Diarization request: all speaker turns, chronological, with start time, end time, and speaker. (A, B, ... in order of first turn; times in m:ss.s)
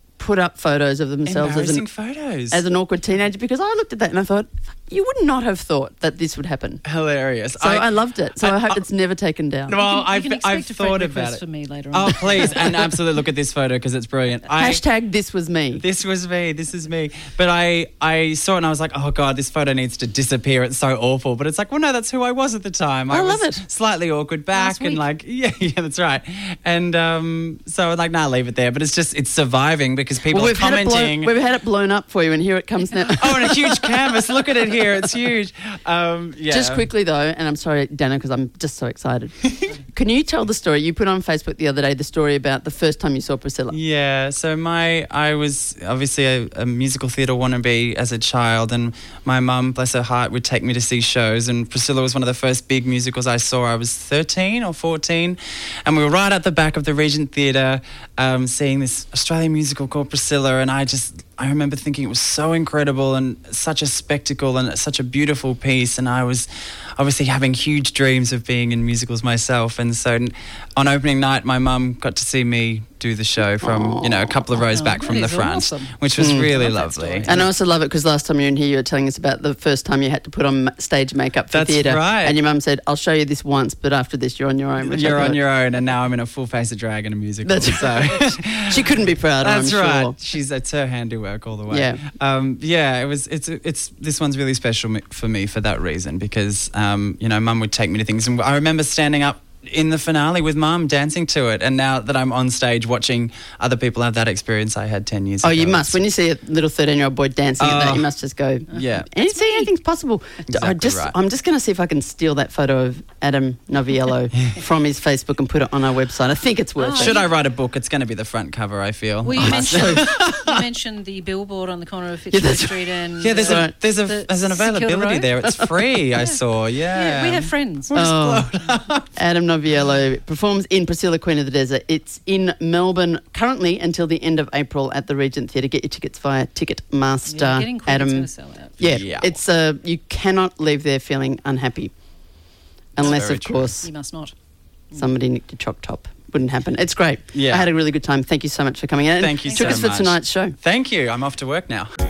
0:00.2-0:01.9 A
0:01.2-0:02.6 B
0:02.5-0:06.8 A
0:06.8-0:08.8 B
0:07.5-0:09.8 A
0:09.7-0:14.8 B
0:09.8-0:12.9 C
0:14.6-0:15.8 A
0:15.8-0:31.3 B
0:23.1-0:23.6 A
0:24.5-0:25.0 C
0:30.3-0:34.5 A
0:33.1-0:36.9 B
0:36.5-0:43.8 A
0:43.7-1:17.4 B
1:13.6-1:14.4 A
1:14.6-1:17.5 C
1:16.2-1:16.5 A
1:17.2-1:25.4 A
1:21.5-1:22.4 B
1:24.8-1:28.9 B
1:27.4-1:30.2 A
1:29.4-1:46.0 B
1:31.7-1:32.0 A
1:45.4-1:57.2 A
1:47.6-1:48.1 B
1:48.7-1:49.1 B
1:48.7-1:49.7 C
1:50.5-1:51.1 B
1:56.8-1:57.3 C
1:57.0-2:00.6 B
1:59.2-2:05.3 C
1:59.4-2:00.0 A
2:02.3-2:02.8 A
2:03.2-2:09.1 B
2:03.3-2:03.7 A
2:06.2-2:07.9 C
2:07.9-2:08.5 A
2:09.2-2:21.9 A
2:17.3-2:18.8 C
2:18.8-2:19.4 B
2:23.0-2:23.7 B
2:23.0-2:23.9 A
2:23.8-2:24.3 C
2:24.9-2:30.6 A
2:27.3-2:27.7 B
2:29.2-2:31.9 B
2:29.4-2:29.9 C